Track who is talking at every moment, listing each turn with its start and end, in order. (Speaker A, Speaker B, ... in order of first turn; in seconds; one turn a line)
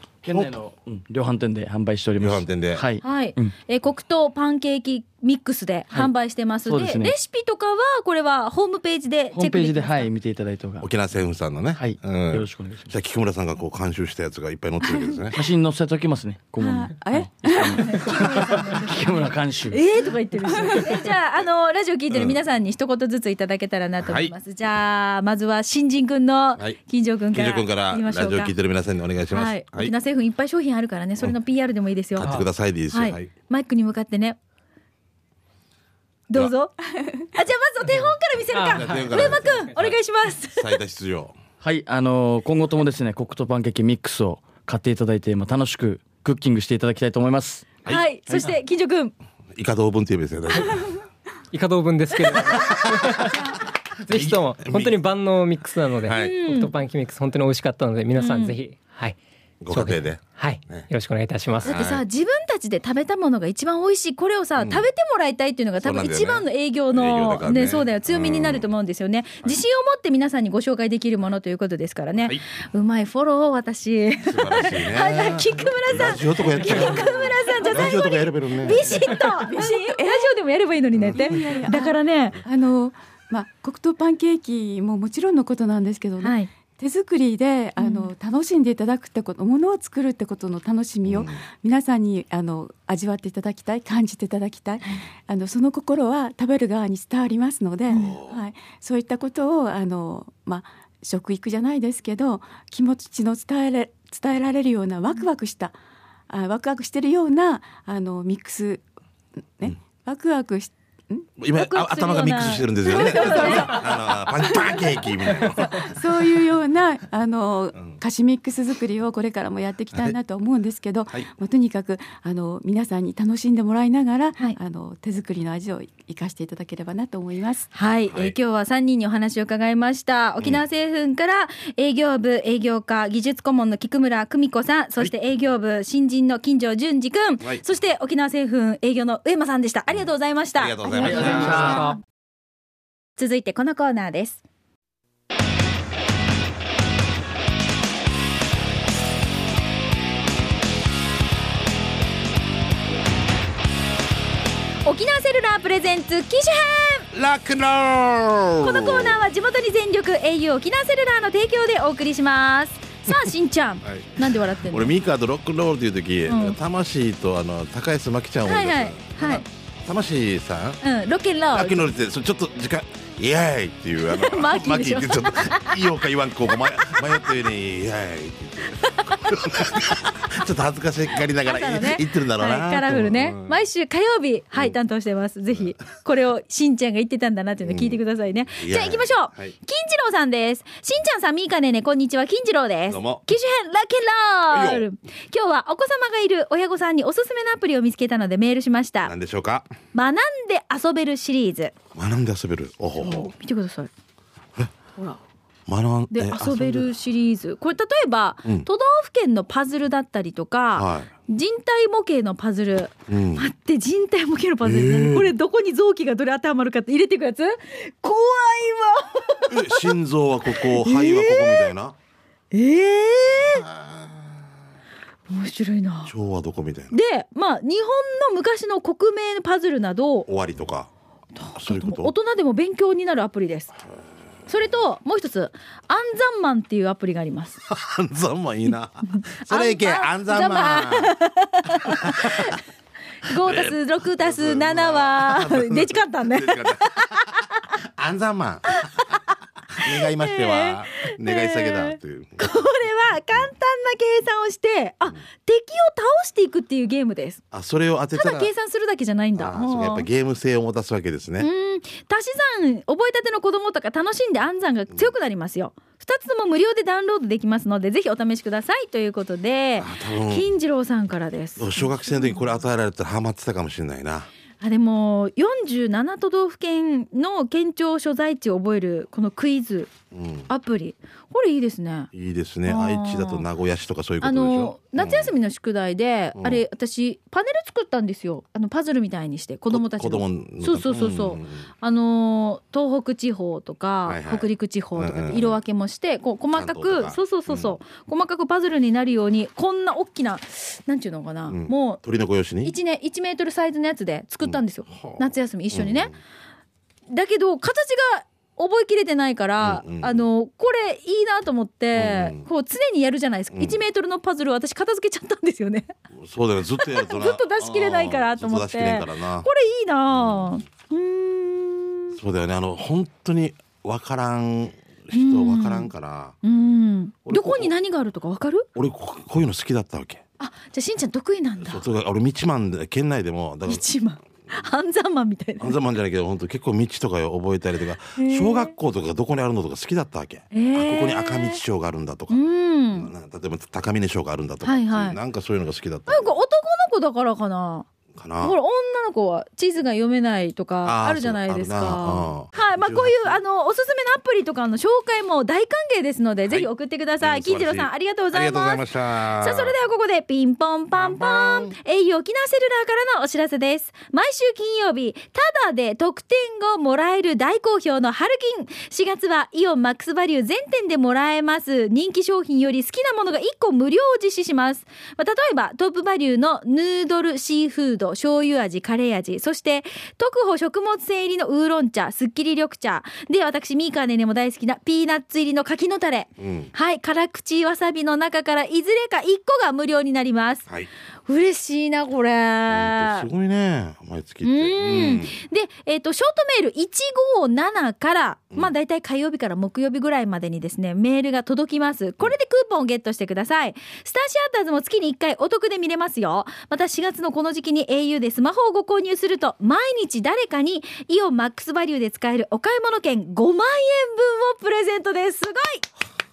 Speaker A: 0.2-3.5
Speaker B: 0.3-0.6
Speaker B: 2.2-2.8
Speaker C: 3.0-10.1
Speaker A: 6.7-7.2
Speaker A: 9.3-10.9
Speaker B: 10.8-15.4
Speaker A: 11.8-12.9
Speaker A: 15.3-19.8
Speaker D: 16.6-19.0
Speaker C: 17.7-19.0
Speaker C: 19.7-28.5
Speaker D: 20.5-21.1
Speaker B: 22.1-22.4
Speaker B: 24.0-24.3
Speaker B: 27.3-29.9
Speaker C: 29.3-34.4
Speaker B: 32.1-33.3
Speaker C: 36.3-36.8
Speaker C: 37.3-40.8
Speaker E: 38.5-39.7
Speaker B: 38.6-40.0
Speaker B: 40.5-41.4
Speaker A: 41.6-47.7
Speaker C: 47.9-49.1
Speaker B: 49.5-50.9
Speaker E: 51.5-53.5
Speaker B: 52.5-53.2
Speaker E: 54.0-59.2
Speaker B: 54.1-55.0
Speaker B: 56.0-56.4
Speaker C: 56.1-56.7
Speaker C: 58.1-58.6
Speaker B: 59.6-60.9
Speaker E: 59.7-61.8
Speaker B: 61.6-62.0
Speaker C: 61.6-82.4
Speaker B: 64.6-64.9
Speaker B: 65.8-68.7
Speaker B: 74.2-78.9
Speaker D: 77.5-78.0
Speaker D: 78.6-80.3
Speaker B: 80.9-81.2
Speaker D: 81.1-105.8
Speaker C: 86.2-86.5
Speaker C: 87.8-88.1
Speaker B: 91.0-91.4
Speaker B: 98.0-98.4
Speaker D: 106.3-108.8
Speaker D: 109.6-111.3
Speaker B: 111.4-115.9
Speaker C: 111.5-113.9
Speaker D: 113.1-113.9
Speaker D: 114.5-114.8
Speaker D: 115.6-127.7
Speaker C: 127.7-142.0
Speaker B: 128.1-128.3
Speaker B: 140.6-141.8
Speaker A: 141.0-141.9
Speaker E: 141.2-142.0
Speaker C: 143.2-144.4
Speaker C: 154.8-157.1
Speaker B: 157.1-159.2
Speaker C: 158.6-164.9
Speaker B: 163.8-170.8
Speaker C: 166.3-166.6
Speaker C: 168.4-169.4
Speaker C: 170.8-171.8
Speaker B: 171.5-183.6
Speaker C: 174.0-175.7
Speaker C: 178.7-179.9
Speaker C: 181.4-199.1
Speaker B: 187.6-188.0
Speaker B: 188.5-189.5
Speaker B: 192.9-193.2
Speaker B: 194.5-194.8
Speaker B: 199.0-199.7
Speaker C: 199.9-201.7
Speaker B: 201.9-203.3
Speaker C: 203.0-203.9
Speaker B: 205.7-206.9
Speaker C: 206.1-219.9
Speaker B: 210.7-211.1
Speaker B: 213.1-213.5
Speaker B: 214.6-215.3
Speaker B: 219.5-221.9
Speaker C: 220.6-221.7
Speaker C: 222.5-223.7
Speaker B: 223.4-224.4
Speaker C: 225.3-226.1
Speaker B: 226.1-226.9
Speaker C: 226.9-230.3
Speaker B: 230.3-230.9
Speaker C: 231.3-233.8
Speaker B: 231.5-232.1
Speaker C: 234.5-237.6
Speaker B: 237.7-241.2
Speaker C: 239.1-242.6
Speaker B: 241.8-242.6
Speaker C: 243.2-247.6
Speaker B: 243.4-248.9
Speaker B: 249.7-252.6
Speaker C: 249.8-257.4
Speaker B: 257.5-258.5
Speaker C: 258.1-260.1
Speaker B: 259.4-261.5
Speaker C: 261.4-272.4
Speaker B: 269.8-270.5
Speaker B: 271.6-274.3
Speaker C: 274.6-279.9
Speaker B: 280.1-280.5
Speaker C: 280.5-282.1
Speaker B: 282.1-285.3
Speaker C: 282.6-283.4
Speaker C: 284.2-302.0
Speaker B: 286.4-286.6
Speaker B: 289.7-291.7
Speaker B: 294.1-295.6
Speaker B: 296.5-297.8
Speaker B: 301.5-302.7
Speaker C: 302.6-306.1
Speaker B: 304.4-306.1
Speaker C: 307.1-315.9
Speaker B: 309.6-310.2
Speaker B: 311.9-312.4
Speaker B: 313.5-313.8
Speaker B: 316.1-319.5
Speaker C: 316.8-322.2
Speaker B: 320.1-320.6
Speaker B: 322.1-326.4
Speaker C: 325.1-325.9
Speaker C: 326.4-328.6
Speaker B: 327.2-327.7
Speaker B: 328.7-330.2
Speaker C: 330.4-331.8
Speaker B: 331.6-333.8
Speaker C: 333.6-335.8
Speaker B: 335.6-342.4
Speaker C: 338.2-338.7
Speaker C: 340.5-341.6
Speaker C: 342.3-343.1
Speaker B: 342.9-346.3
Speaker C: 344.6-345.2
Speaker C: 346.1-347.9
Speaker B: 348.1-348.6
Speaker C: 348.4-390.7
Speaker B: 350.8-353.4
Speaker B: 357.2-359.7
Speaker B: 360.9-361.7
Speaker B: 386.4-386.7
Speaker C: 391.2-393.3
Speaker B: 392.7-395.4
Speaker C: 394.4-415.9